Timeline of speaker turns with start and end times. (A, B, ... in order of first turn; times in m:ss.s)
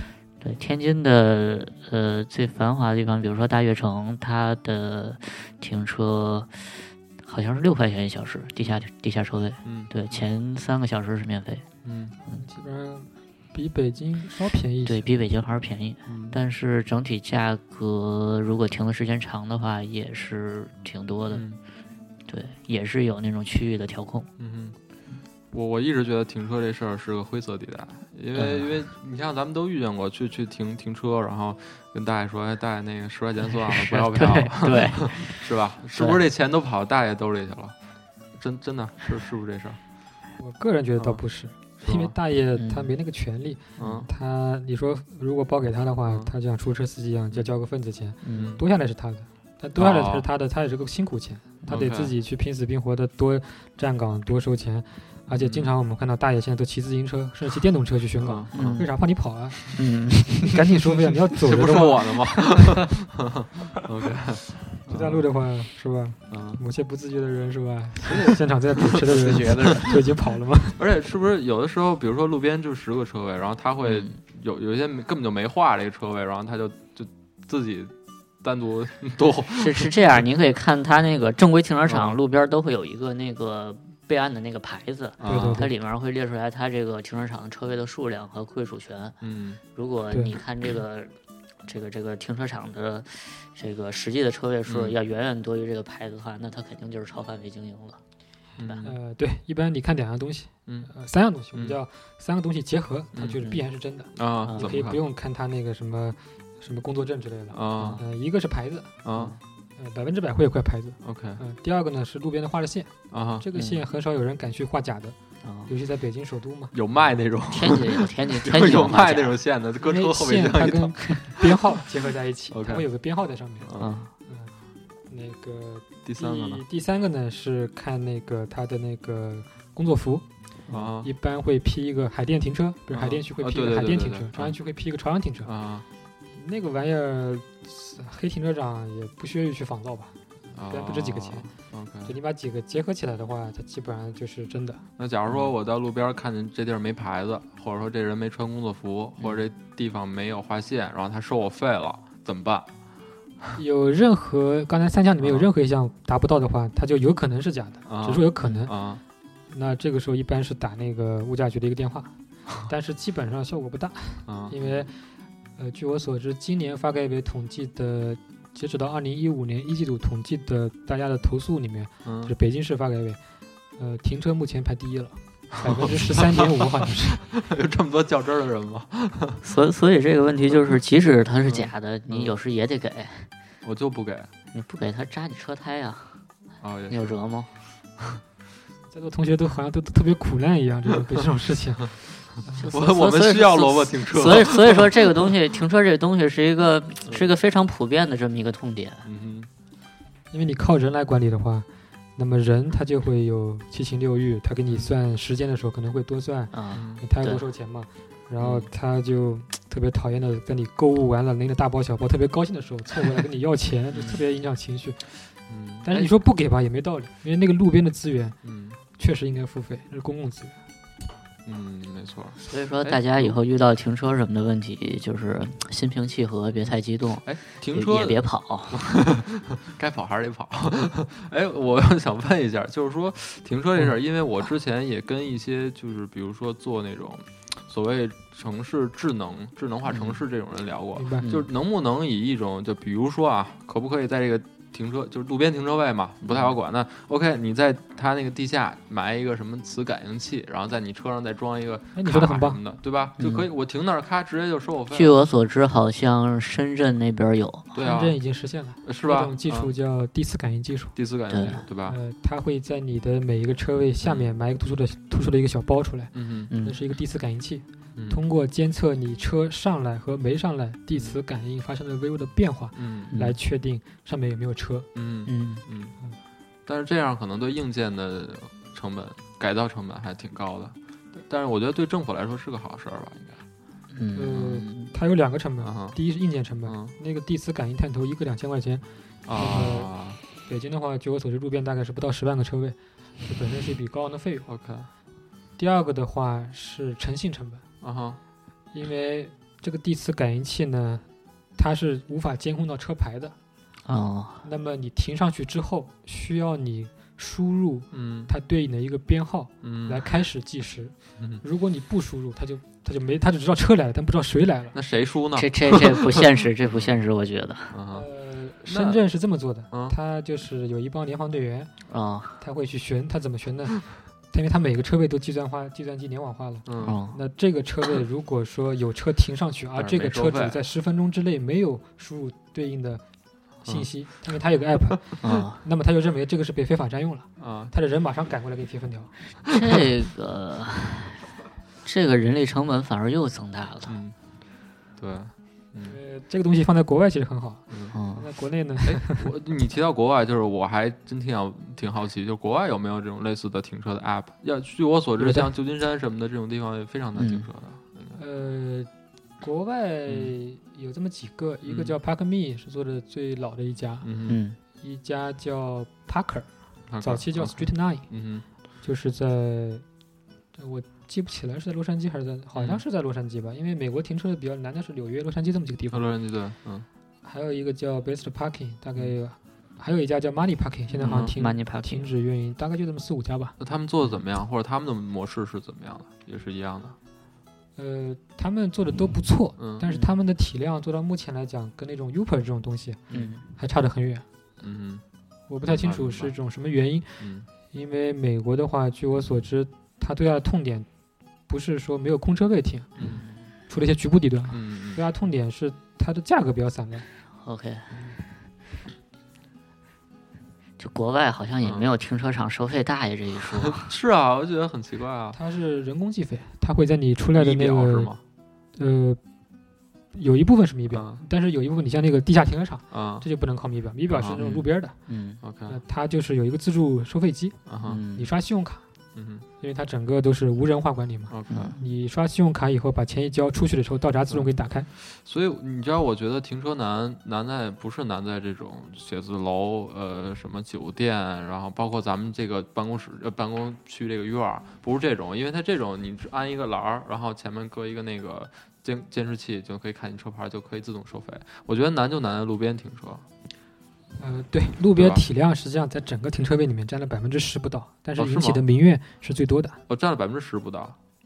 0:00.4-0:11.6 A
0:09.6-0:10.2 B
0:11.8-0:12.1 B
0:12.2-0:15.1 C
0:14.8-0:21.5 A
0:16.1-0:16.4 B
0:21.3-0:21.6 B
0:22.3-0:24.3 A
0:24.4-0:24.8 B
0:25.5-0:37.8 B
0:28.3-0:28.7 A
0:33.5-0:36.2 A
0:38.3-0:39.8 B
0:40.4-1:02.6 C
0:41.8-0:42.1 B
0:42.6-0:42.9 A
0:43.8-0:44.1 B
0:46.0-0:46.3 B
0:48.2-0:48.6 A
0:48.3-0:48.6 B
0:49.7-0:50.3 B
0:51.7-0:52.1 B
0:55.3-0:55.7 B
0:58.2-0:58.9 B
0:58.5-0:58.9 A
0:59.7-1:00.6 A
1:01.4-1:05.2 B
1:04.9-1:10.8 C
1:06.3-1:06.6 B
1:08.1-1:09.8 B
1:09.1-1:10.0 A
1:10.8-1:20.2 B
1:13.8-1:14.2 A
1:19.6-1:29.2 A
1:21.8-1:22.2 B
1:25.2-1:25.7 B
1:25.2-1:25.7 C
1:29.2-1:29.6 B
1:29.7-1:31.1 A
1:30.1-1:30.4 C
1:31.6-1:38.0 A
1:34.6-1:35.0 B
1:38.6-1:39.0 B
1:38.8-1:49.0 C
1:40.6-1:40.9 B
1:43.1-1:43.4 B
1:44.1-1:45.0 B
1:44.4-1:44.7 A
1:47.5-1:48.0 B
1:47.8-1:48.0 A
1:49.0-1:49.4 B
1:49.1-1:49.4 A
1:49.8-1:56.7 C
1:51.0-1:51.4 B
1:53.1-1:53.4 B
1:53.5-1:53.8 A
1:55.4-1:55.7 A
1:56.7-2:01.6 B
1:57.5-1:59.4 A
1:59.8-2:03.7 C
2:02.5-2:02.8 B
2:03.6-2:04.0 B
2:03.8-2:04.1 A
2:04.2-2:04.5 C
2:05.1-2:10.3 C
2:06.0-2:06.6 B
2:10.7-2:11.1 B
2:11.0-2:15.5 C
2:12.9-2:14.6 B
2:15.4-2:15.9 B
2:16.3-2:21.5 C
2:20.5-2:22.1 B
2:22.0-2:24.8 C
2:25.0-2:32.7 B
2:33.5-2:38.7 C
2:35.2-2:35.5 B
2:37.8-2:39.0 B
2:39.5-2:53.2 C
2:44.2-2:44.8 B
2:52.0-2:52.3 B
2:53.8-2:57.2 C
2:55.7-2:56.4 B
2:57.2-2:59.4 B
2:59.4-3:03.3 A
3:01.4-3:02.4 B
3:03.6-3:04.3 B
3:04.5-3:06.2 A
3:06.6-3:07.2 B
3:06.9-3:07.5 A
3:08.9-3:12.6 C
3:12.5-3:19.1 A
3:12.7-3:15.3 B
3:17.0-3:17.3 B
3:19.0-3:19.5 B
3:20.3-3:38.4 C
3:26.5-3:27.4 A
3:26.7-3:27.0 B
3:28.4-3:28.7 B
3:33.9-3:34.2 B
3:35.5-3:36.1 B
3:38.4-3:38.8 B
3:38.9-3:40.6 C
3:41.4-3:43.4 B
3:42.5-3:49.0 A
3:46.6-4:15.2 B
3:59.9-4:00.2 A
4:00.9-4:01.3 C
4:01.2-4:01.4 A
4:06.2-4:06.5 A
4:11.9-4:12.6 C
4:13.2-4:13.5 A
4:14.9-4:17.7 A
4:17.7-4:18.2 B
4:17.8-4:21.0 C
4:18.8-4:19.7 B
4:20.9-4:22.0 B
4:21.3-4:21.6 A
4:21.8-4:34.9 C
4:24.0-4:24.3 B
4:26.1-4:26.5 B
4:26.5-4:26.8 A
4:32.7-4:33.1 B
4:34.9-4:36.0 B
4:35.2-4:35.6 A
4:36.6-4:43.4 B
4:43.9-4:44.9 A
4:44.1-4:54.5 C
4:45.6-4:46.0 B
4:46.6-4:46.9 B
4:49.2-4:50.2 B
4:54.5-4:54.9 B
4:55.6-4:57.6 C
4:57.8-4:58.2 B
4:58.7-5:03.3 C
5:03.8-5:04.4 A
5:04.4-5:14.7 C
5:07.9-5:08.3 B
5:09.6-5:10.1 B
5:14.7-5:17.0 B
5:15.3-5:17.8 A
5:17.7-5:18.1 B
5:17.9-5:21.7 C
5:18.6-5:19.0 B
5:19.7-5:20.0 B
5:21.9-5:22.4 A
5:22.4-5:33.0 C
5:26.6-5:27.0 B
5:26.8-5:27.2 A
5:29.7-5:30.6 B
5:33.6-5:39.1 C
5:35.2-5:35.6 A
5:37.4-5:37.7 B
5:39.4-5:41.2 A
5:41.8-5:44.0 A
5:43.9-5:44.2 B
5:45.0-5:46.0 B
5:45.8-5:49.2 C
5:47.7-5:48.0 B
5:47.9-5:48.3 A
5:48.8-5:58.2 B
5:55.2-5:55.5 C
5:57.2-5:57.5 A
5:58.1-5:58.9 C
5:59.4-6:04.1 C
6:00.1-6:00.3 B
6:01.6-6:02.0 B
6:04.0-6:04.4 B
6:04.3-6:04.6 A
6:04.8-6:08.1 C
6:06.9-6:08.4 B
6:08.8-6:09.8 C
6:10.5-6:16.1 C
6:12.5-6:12.8 B
6:15.9-6:16.9 B
6:17.2-6:23.6 C
6:21.0-6:22.1 A
6:21.0-6:21.3 B
6:23.6-6:27.0 B
6:27.8-6:34.2 C
6:29.6-6:29.8 B
6:29.8-6:30.1 A
6:33.1-6:33.4 A
6:34.6-6:35.0 B
6:35.5-6:40.9 C
6:35.6-6:36.3 B
6:37.2-6:37.5 B
6:41.5-6:42.9 C
6:43.0-6:43.2 B
6:43.0-6:43.5 A
6:43.7-6:47.1 C
6:44.5-6:45.0 B
6:47.4-6:47.9 A
6:47.9-6:48.2 C
6:50.8-6:53.9 A
6:51.6-6:51.9 B
6:53.6-6:55.4 B
6:55.3-6:58.2 C
6:57.4-6:58.2 B
6:58.7-6:59.2 C
7:00.1-7:05.0 C
7:00.9-7:01.2 B
7:02.9-7:03.2 B
7:04.1-7:04.4 B
7:04.4-7:05.4 A
7:05.4-7:05.8 B
7:05.6-7:08.8 C
7:07.6-7:08.0 B
7:07.8-7:08.3 A
7:09.1-7:09.4 B
7:09.6-7:14.9 C
7:11.3-7:11.7 B
7:11.5-7:11.8 A
7:14.3-7:33.2 B
7:34.2-7:39.8 C
7:34.9-7:35.2 B
7:38.2-7:38.6 B
7:39.9-7:41.0 B